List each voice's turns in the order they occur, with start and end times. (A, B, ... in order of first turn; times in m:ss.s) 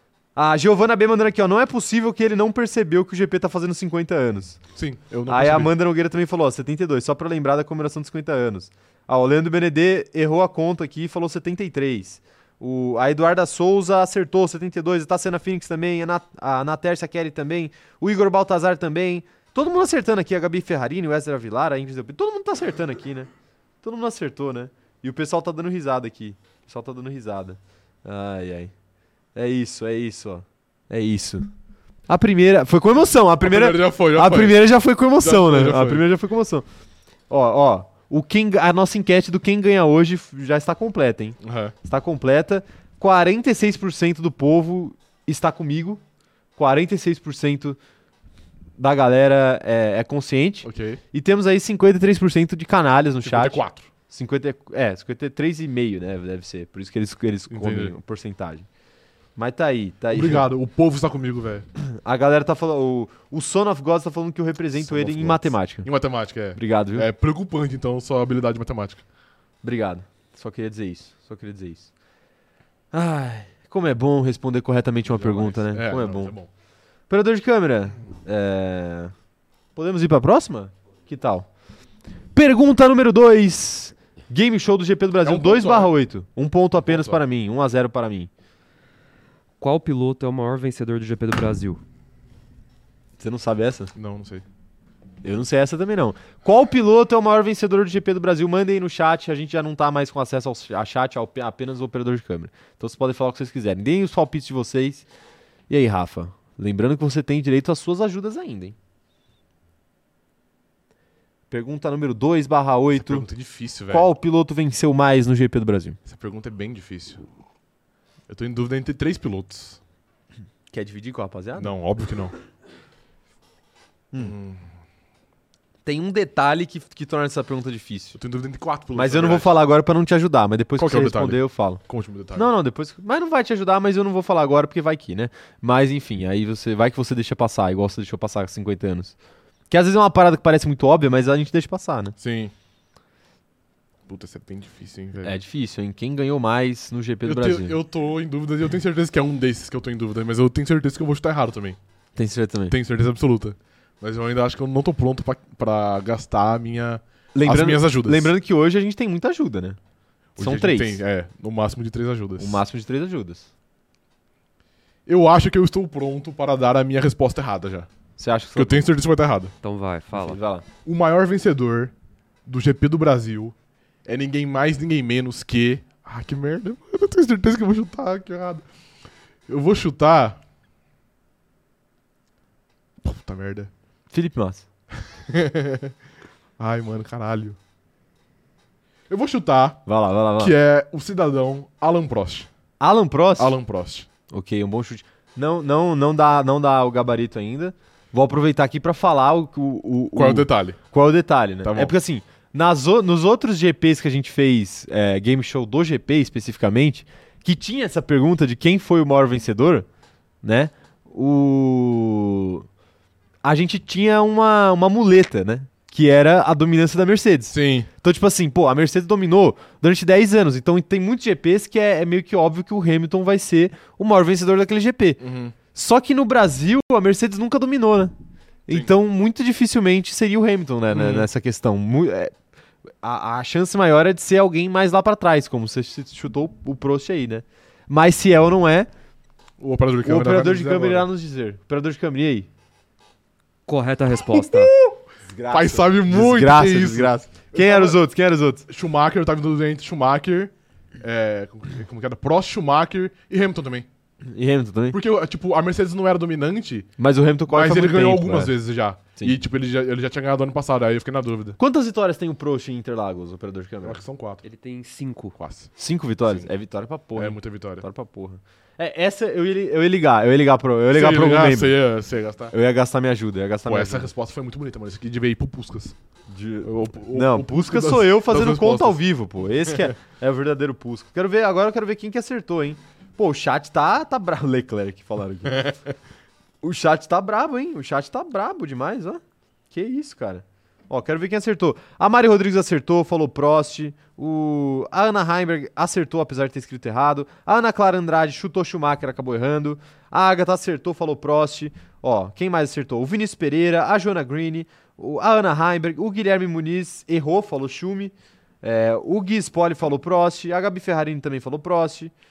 0:00.4-0:04.6 A
0:04.7-0:05.7 B
0:05.3-0:23.3 A
0:23.8-0:28.7 A
0:29.4-0:31.5 A
0:32.1-0:36.6 A
0:33.4-0:34.7 B
0:35.2-0:36.1 B
0:37.3-0:46.0 A
0:41.4-0:41.8 B
0:46.6-0:47.8 A
0:48.8-0:58.7 A
0:50.6-0:51.0 B
0:53.2-0:53.9 B
0:57.5-0:58.0 B
0:59.4-1:00.5 A
1:00.1-1:01.7 B
1:01.8-1:05.9 A
1:04.8-1:09.0 B
1:06.6-1:07.1 A
1:09.6-1:11.9 A
1:12.9-1:16.4 A
1:15.1-1:16.5 B
1:17.1-1:19.1 A
1:19.8-1:21.5 A
1:22.3-1:28.3 A
1:25.2-1:25.9 B
1:26.9-1:27.2 B
1:29.6-1:31.8 C
1:33.2-1:33.9 A
1:34.0-1:34.4 B
1:35.2-1:45.0 A
1:45.7-1:48.8 A
1:51.5-1:53.3 A
1:52.9-1:54.1 B
1:53.9-1:56.0 A
1:56.0-1:57.2 B
1:58.3-1:59.8 B
2:00.7-2:01.7 A
2:01.6-2:02.3 B
2:04.2-2:04.7 B
2:05.8-2:08.2 A
2:08.2-2:09.5 B
2:08.9-2:11.8 A
2:10.8-2:12.5 B
2:12.3-2:19.2 A
2:19.7-2:22.2 A
2:22.2-2:22.5 B
2:24.1-2:25.4 B
2:25.2-2:27.8 A
2:27.2-2:31.8 B
2:32.2-2:32.8 A
2:32.7-2:38.3 B
2:37.3-2:39.8 A
2:40.4-2:42.6 B
2:40.4-2:41.0 A
2:42.4-2:43.5 A
2:45.1-2:47.9 B
2:48.2-2:48.9 A
2:48.6-2:49.5 B
2:49.6-2:50.4 C
2:50.1-2:50.6 A
2:50.8-2:51.9 B
2:52.5-2:53.5 B
2:54.0-2:58.6 B
2:59.5-3:00.4 B
3:03.0-3:03.7 B
3:04.1-3:04.7 A
3:05.2-3:05.9 B
3:06.6-3:07.6 B
3:09.1-3:09.8 B
3:09.9-3:10.6 A
3:10.4-3:12.5 B
3:12.8-3:13.6 A
3:13.4-3:14.1 B
3:14.3-3:29.9 A
3:20.2-3:20.8 B
3:21.6-3:21.9 B
3:30.4-3:32.7 A
3:33.4-3:48.1 A
3:37.5-3:37.9 B
3:45.2-3:45.6 B
3:48.7-3:52.3 A
3:50.9-3:51.3 B
3:53.0-3:58.9 A
3:59.6-4:01.1 B
4:00.0-4:02.5 A
4:03.7-4:04.7 C
4:04.3-4:05.0 B
4:05.3-4:08.7 A
4:05.5-4:08.0 B
4:08.7-4:13.9 B
4:14.3-4:15.0 A
4:14.9-4:16.9 B
4:17.0-4:18.5 A
4:17.5-4:21.6 B
4:21.6-4:24.0 A
4:23.8-4:24.4 B
4:24.4-4:25.4 C
4:25.4-4:25.7 B
4:25.8-4:31.8 A
4:26.2-4:26.5 B
4:27.2-4:27.9 B
4:30.9-4:32.6 B
4:32.5-4:34.1 A
4:33.7-4:36.0 B
4:36.3-4:45.8 A
4:36.6-4:39.0 B
4:39.7-4:39.9 B
4:45.5-4:45.8 B
4:46.6-5:12.1 A